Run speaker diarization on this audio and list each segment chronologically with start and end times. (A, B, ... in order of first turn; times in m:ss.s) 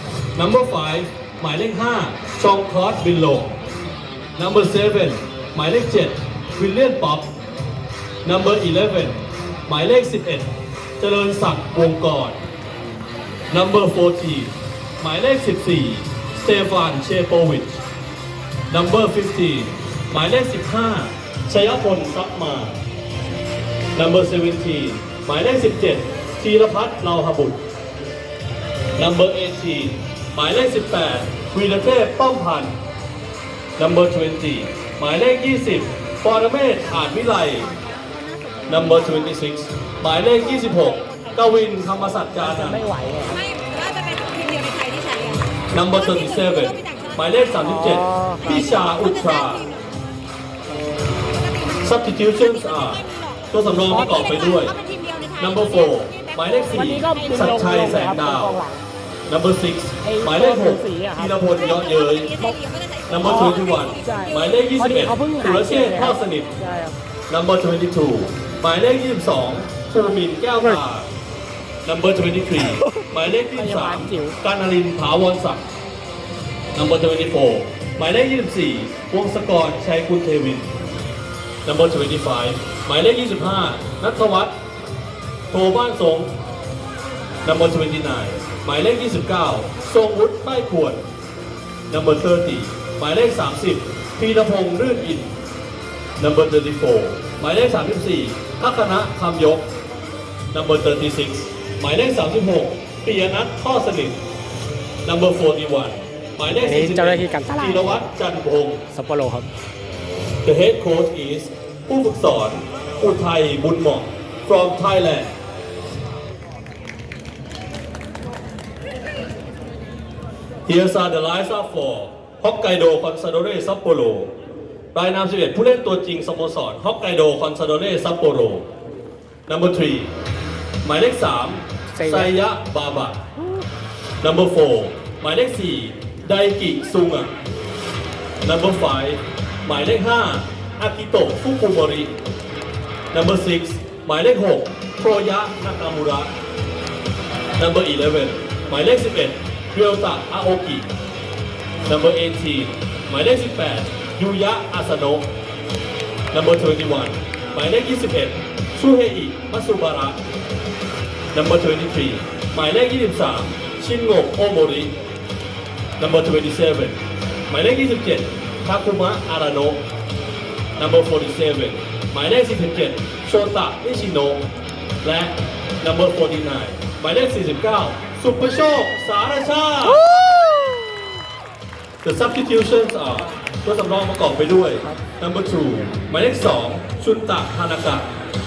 0:00.3-0:03.6 A
0:04.4-0:07.3 A
0:08.2-0:12.4 A
0:13.5-0:17.8 A
0:18.7-0:22.8 A
0:23.9-0:27.6 A
0:29.0-0:32.7 A
0:33.8-0:37.7 A
0:38.7-0:42.9 A
0:42.3-0:43.5 B
0:43.5-0:45.4 C
0:45.7-0:49.7 A
0:47.6-0:48.6 B
0:51.8-0:58.6 A
0:54.9-0:55.3 C
0:56.8-0:58.8 B
0:59.3-1:02.4 A
1:00.0-1:01.4 B
1:02.4-1:03.0 C
1:03.1-1:06.6 A
1:03.2-1:06.9 B
1:07.3-1:11.1 A
1:11.8-1:15.6 A
1:13.5-1:14.4 B
1:16.7-1:20.7 A
1:21.6-1:24.5 A
1:25.5-1:26.3 A
1:27.4-1:31.0 A
1:31.9-1:35.3 A
1:36.2-1:39.6 A
1:40.5-1:44.2 A
1:45.0-1:48.8 A
1:46.6-1:48.0 B
1:48.9-1:49.5 B
1:50.4-1:55.3 A
2:00.6-2:04.3 A
2:04.9-2:08.6 A
2:09.5-2:10.1 A
2:10.8-2:13.2 A
2:11.9-2:12.3 B
2:14.2-2:17.3 A
2:18.4-2:22.1 A
2:23.1-2:26.3 A
2:27.6-2:30.9 A
2:31.8-2:35.3 A
2:36.3-2:40.2 A
2:41.3-2:44.9 A
2:46.0-2:49.8 A
2:50.8-2:54.4 A
2:55.0-3:00.1 A
3:00.1-3:00.8 B
3:02.0-3:08.1 A